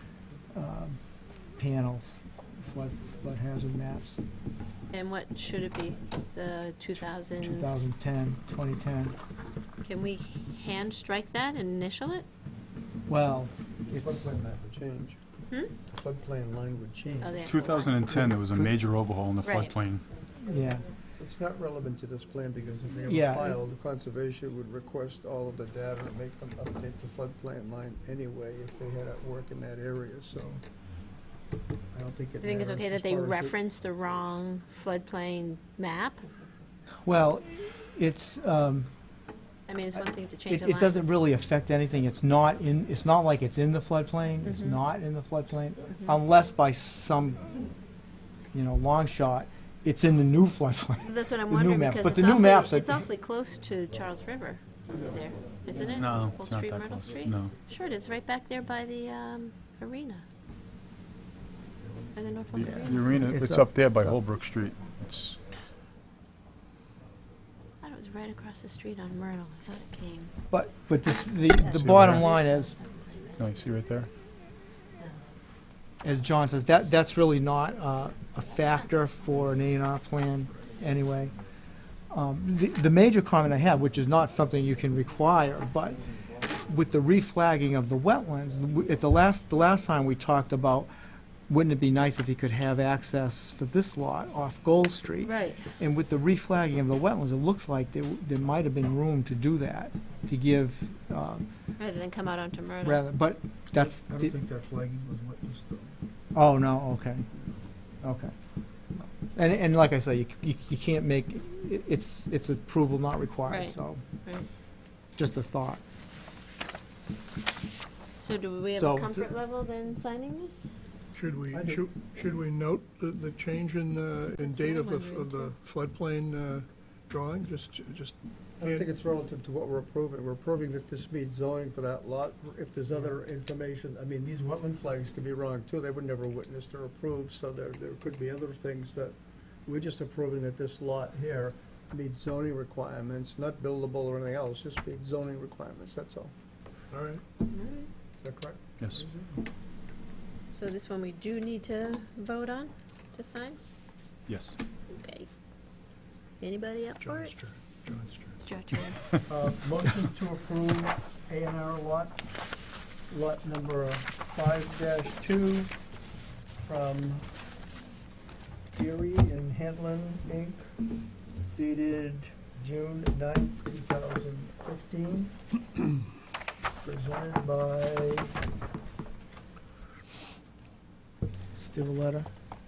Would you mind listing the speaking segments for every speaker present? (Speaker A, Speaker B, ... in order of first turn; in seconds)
Speaker A: 0.5-1.0, 1.6-4.2, 7.4-9.2, 13.1-14.3, 20.4-20.9, 23.1-23.6, 37.0-38.9, 40.5-47.4, 48.5-53.0, 63.3-64.2, 70.5-72.7, 76.0-81.3, 82.1-86.0, 86.6-90.9, 91.5-101.5, 102.8-104.3, 106.3-107.3, 108.0-108.3, 109.3-114.0, 115.2-115.8, 118.7-119.4, 181.5-182.3
Speaker B: 4.9-7.7, 9.8-12.3, 17.2-18.2, 19.4-19.8, 32.4-36.3, 39.7-41.2, 44.4-44.8, 45.9-46.2, 51.0-60.2, 62.1-63.1, 67.8-70.3, 71.6-73.5, 95.2-95.7, 101.8-103.0, 113.5-114.5, 118.2-120.7, 124.4-125.5, 147.5-147.9, 150.5-153.6, 154.9-155.3, 156.4-157.3, 158.4-159.0
Speaker C: 13.9-15.2, 15.9-17.4, 18.1-18.6, 21.2-30.6, 31.9-33.6, 103.8-106.0, 121.5-122.0, 128.6-146.3, 148.2-149.4, 159.3-162.2, 163.1-165.7, 166.6-167.3, 168.7-170.7, 171.5-175.3, 176.8-178.3
Speaker D: 17.4-20.1, 55.9-57.5, 62.5-65.4, 71.7-72.3, 73.4-74.1, 148.8-149.1, 154.3-154.6
Speaker E: 121.1-128.9, 146.9-147.2, 157.0-158.4